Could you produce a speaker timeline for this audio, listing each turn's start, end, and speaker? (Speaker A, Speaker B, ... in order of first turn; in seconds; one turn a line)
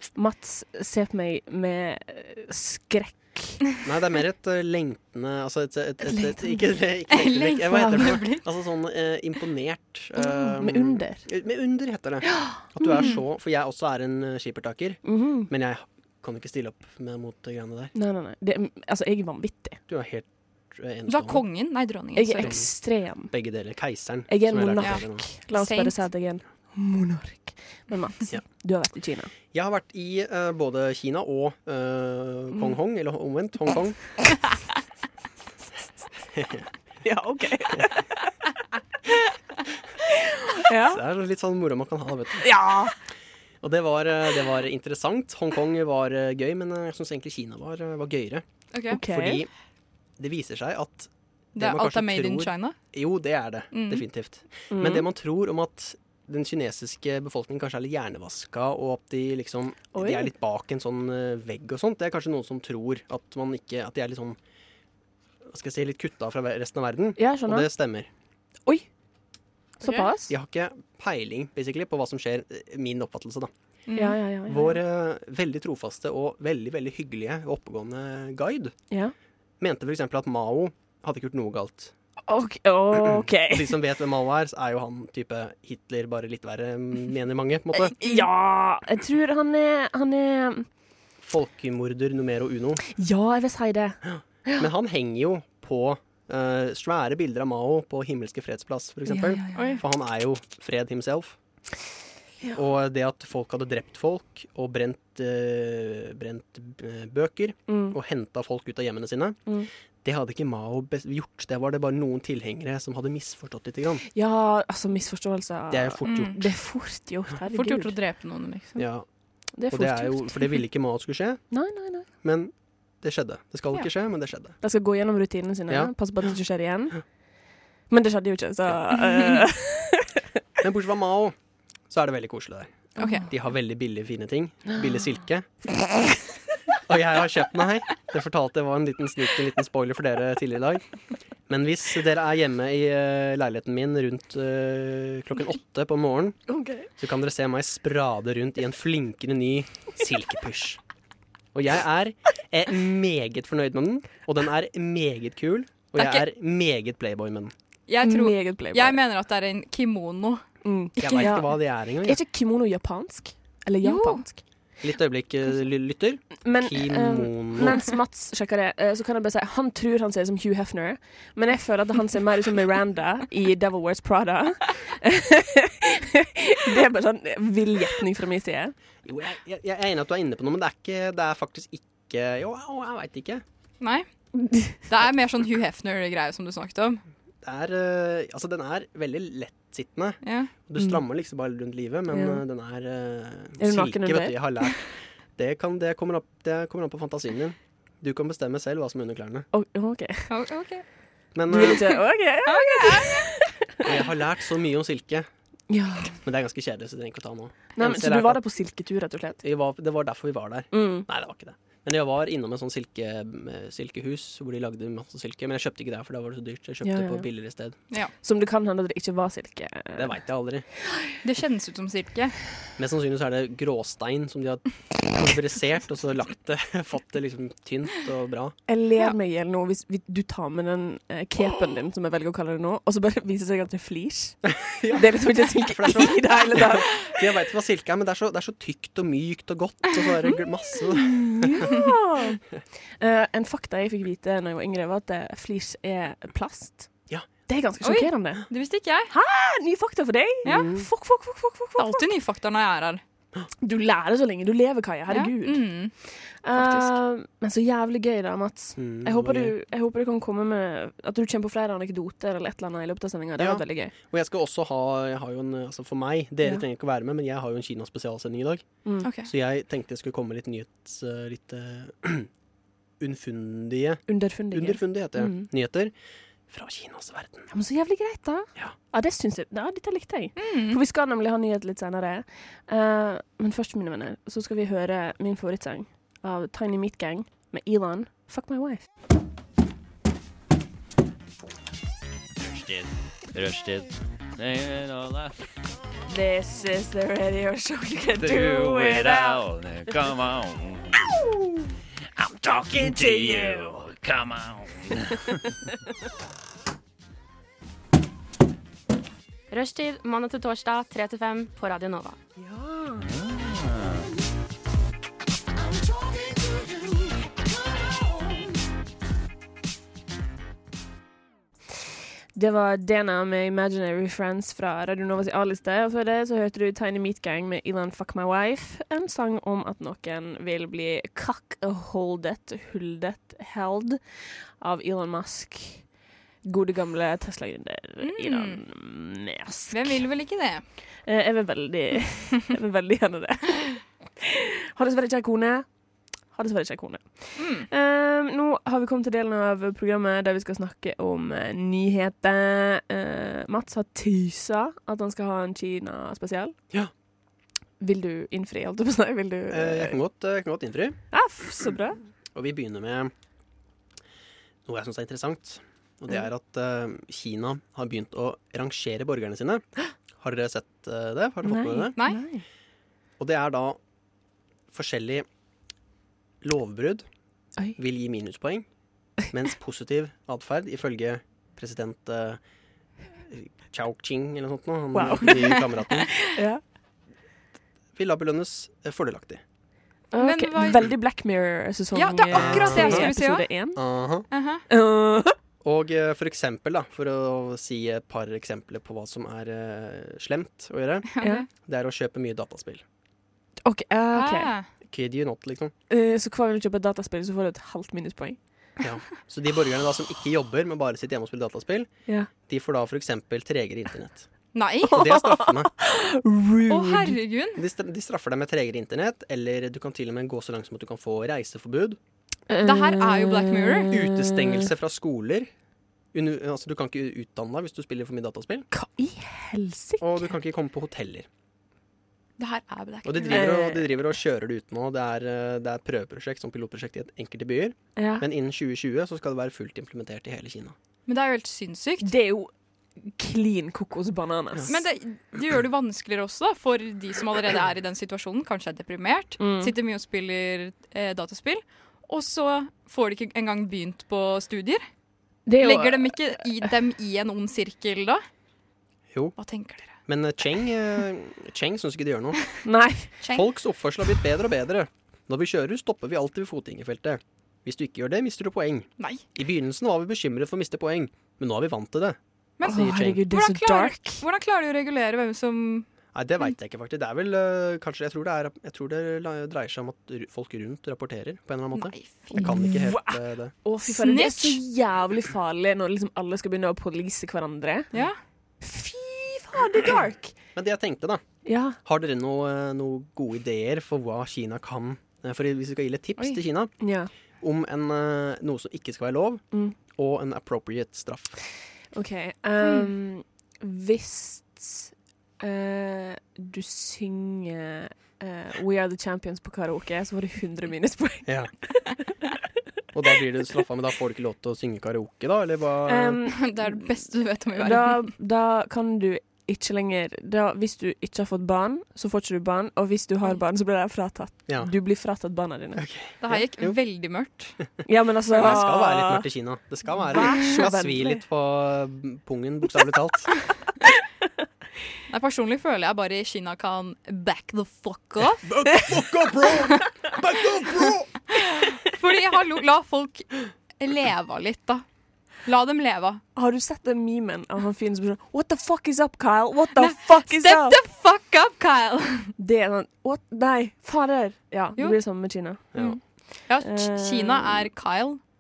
Speaker A: 0.1-3.6
Speaker B: 3.8-17.9
Speaker A: 6.0-6.7
Speaker C: 7.1-8.4
Speaker A: 7.7-8.2
Speaker A: 10.2-11.3
Speaker A: 12.2-13.2
Speaker C: 12.9-13.2
Speaker A: 15.1-15.5
Speaker A: 17.9-19.8
Speaker B: 19.9-21.4
Speaker C: 21.1-22.6
Speaker A: 22.1-23.3
Speaker B: 22.4-22.7
Speaker B: 23.3-25.3
Speaker A: 24.3-29.3
Speaker C: 25.5-26.1
Speaker B: 29.5-34.2
Speaker B: 36.3-36.7
Speaker A: 37.0-38.3
Speaker A: 40.1-41.0
Speaker B: 40.8-42.5
Speaker A: 42.4-43.0
Speaker B: 43.6-48.5
Speaker C: 48.7-49.0
Speaker A: 48.9-49.4
Speaker B: 49.0-49.5
Speaker B: 50.2-64.4
Speaker C: 51.5-52.8
Speaker C: 53.7-54.0
Speaker A: 54.7-55.1
Speaker A: 59.9-60.3
Speaker B: 65.5-68.1
Speaker A: 67.2-67.7
Speaker C: 69.8-70.1
Speaker A: 69.8-70.3
Speaker B: 70.3-73.5
Speaker C: 73.9-74.2
Speaker A: 74.0-74.8
Speaker B: 74.5-78.7
Speaker B: 79.6-81.9
Speaker A: 82.3-83.8
Speaker B: 82.9-88.0
Speaker A: 87.9-90.7
Speaker B: 91.2-92.8
Speaker A: 92.9-94.7
Speaker B: 94.0-101.4
Speaker A: 99.1-99.8
Speaker C: 99.5-99.8
Speaker B: 102.5-109.4
Speaker A: 107.7-108.0
Speaker B: 110.0-114.0
Speaker A: 114.1-117.9
Speaker B: 115.7-116.5
Speaker C: 116.1-116.4
Speaker C: 117.5-118.9
Speaker B: 118.8-119.1
Speaker A: 119.6-120.6
Speaker B: 119.7-121.4
Speaker A: 121.5-122.1
Speaker B: 122.2-124.6
Speaker A: 124.6-127.0
Speaker B: 125.7-125.9
Speaker A: 127.9-130.2
Speaker B: 130.6-131.3
Speaker B: 131.9-135.5
Speaker A: 133.0-133.2
Speaker C: 133.0-133.3
Speaker B: 136.9-140.9
Speaker B: 141.5-146.4
Speaker A: 146.5-146.9
Speaker B: 147.0-150.8
Speaker B: 151.5-157.5
Speaker C: 156.0-156.3
Speaker C: 157.9-160.4
Speaker A: 158.0-159.0
Speaker A: 160.6-161.5
Speaker B: 161.0-162.2
Speaker C: 161.0-161.3
Speaker A: 162.0-164.4
Speaker C: 163.8-164.2
Speaker B: 164.8-167.9
Speaker A: 166.4-178.7
Speaker B: 179.0-183.4
Speaker C: 183.8-184.1
Speaker C: 184.8-187.0
Speaker B: 187.4-199.5
Speaker C: 190.2-190.5
Speaker A: 192.1-192.4
Speaker A: 193.6-194.4
Speaker A: 199.5-200.3
Speaker C: 200.3-200.8
Speaker B: 201.3-202.0
Speaker A: 201.5-203.8
Speaker C: 202.4-203.3
Speaker B: 203.8-205.3
Speaker A: 205.7-206.2
Speaker B: 206.1-208.4
Speaker A: 207.8-209.4
Speaker B: 209.4-217.8
Speaker A: 210.7-211.1
Speaker A: 216.8-217.3
Speaker A: 218.2-220.2
Speaker B: 220.0-220.7
Speaker C: 221.2-222.3
Speaker B: 222.8-228.6
Speaker A: 228.7-237.0
Speaker B: 234.5-241.7
Speaker A: 241.0-242.4
Speaker A: 243.0-246.9
Speaker A: 247.5-248.4
Speaker C: 247.8-249.1
Speaker A: 249.1-252.1
Speaker B: 250.5-250.9
Speaker C: 251.8-253.0
Speaker A: 253.6-255.7
Speaker C: 255.1-255.9
Speaker A: 256.3-263.9
Speaker C: 256.5-257.0
Speaker B: 258.8-259.5
Speaker B: 263.4-272.3
Speaker C: 269.0-269.3
Speaker B: 273.0-275.9
Speaker A: 274.1-275.5
Speaker B: 276.5-277.5
Speaker A: 277.5-288.8
Speaker C: 280.4-280.8
Speaker D: 292.4-295.4
Speaker A: 296.1-299.4
Speaker D: 298.2-301.1
Speaker D: 302.2-305.5
Speaker A: 302.7-303.8
Speaker E: 309.5-312.2
Speaker A: 312.4-313.0
Speaker D: 313.0-314.1
Speaker A: 322.4-334.0
Speaker A: 334.6-335.9
Speaker A: 336.4-340.0
Speaker C: 338.0-338.6
Speaker C: 339.7-340.6
Speaker A: 341.1-345.7
Speaker A: 346.3-356.6
Speaker C: 347.4-347.7
Speaker A: 357.8-360.0
Speaker B: 359.5-361.0
Speaker A: 361.1-362.0
Speaker B: 362.3-363.1
Speaker B: 364.7-369.6
Speaker B: 370.2-371.9
Speaker A: 371.4-372.4
Speaker C: 372.0-372.2
Speaker B: 373.2-373.8
Speaker B: 374.7-375.3
Speaker B: 376.4-377.1
Speaker B: 377.8-378.7
Speaker B: 379.3-382.4
Speaker B: 383.3-386.1
Speaker A: 384.9-385.6
Speaker C: 385.3-385.6
Speaker A: 386.3-386.6
Speaker B: 387.9-389.4
Speaker A: 390.1-393.8
Speaker C: 390.2-390.8
Speaker C: 391.9-393.5
Speaker B: 392.3-393.1
Speaker B: 393.8-394.3
Speaker C: 394.3-394.6
Speaker A: 394.7-395.4
Speaker B: 395.6-402.8
Speaker C: 401.1-401.5
Speaker A: 403.6-404.5
Speaker C: 404.1-404.7
Speaker B: 404.9-405.7
Speaker A: 405.9-408.4
Speaker B: 408.8-411.9
Speaker B: 412.4-414.3
Speaker C: 414.5-415.0
Speaker B: 414.8-415.7
Speaker A: 414.9-417.2
Speaker C: 416.7-417.6
Speaker B: 417.6-422.0
Speaker A: 422.5-424.7
Speaker C: 422.6-423.9
Speaker B: 423.9-425.5
Speaker B: 426.1-428.7
Speaker A: 428.7-430.3
Speaker B: 430.0-431.3
Speaker C: 432.4-433.5
Speaker B: 433.1-440.8
Speaker A: 433.3-433.9
Speaker A: 438.0-438.3
Speaker C: 441.1-442.1
Speaker A: 442.0-444.7
Speaker C: 444.7-454.8
Speaker A: 449.4-449.7
Speaker A: 455.5-456.7
Speaker C: 455.6-458.2
Speaker C: 459.4-459.9
Speaker B: 460.1-462.5
Speaker A: 462.6-463.1
Speaker C: 463.2-463.5
Speaker B: 463.3-473.3
Speaker C: 472.6-475.9
Speaker A: 472.6-474.2
Speaker B: 476.1-483.5
Speaker C: 481.8-482.5
Speaker A: 482.3-487.9
Speaker C: 483.9-484.6
Speaker A: 488.6-490.3
Speaker B: 490.6-491.2
Speaker A: 491.4-491.8
Speaker B: 491.8-496.8
Speaker A: 496.8-497.1
Speaker B: 497.4-501.4
Speaker A: 501.9-511.8
Speaker C: 502.6-502.9
Speaker B: 511.3-511.5
Speaker B: 512.9-516.2
Speaker A: 515.9-516.8
Speaker C: 516.3-518.1
Speaker A: 517.6-525.8
Speaker B: 524.5-524.7
Speaker B: 525.8-526.8
Speaker C: 526.2-527.6
Speaker A: 527.9-529.3
Speaker B: 528.3-533.3
Speaker A: 530.0-531.2
Speaker C: 530.1-530.6
Speaker C: 535.1-538.5
Speaker F: 538.6-539.8
Speaker F: 540.3-541.0
Speaker C: 541.4-544.8
Speaker C: 545.4-546.2
Speaker A: 546.4-550.8
Speaker C: 549.8-552.3
Speaker A: 552.4-555.7
Speaker B: 555.7-556.0
Speaker C: 555.8-558.2
Speaker A: 556.6-557.7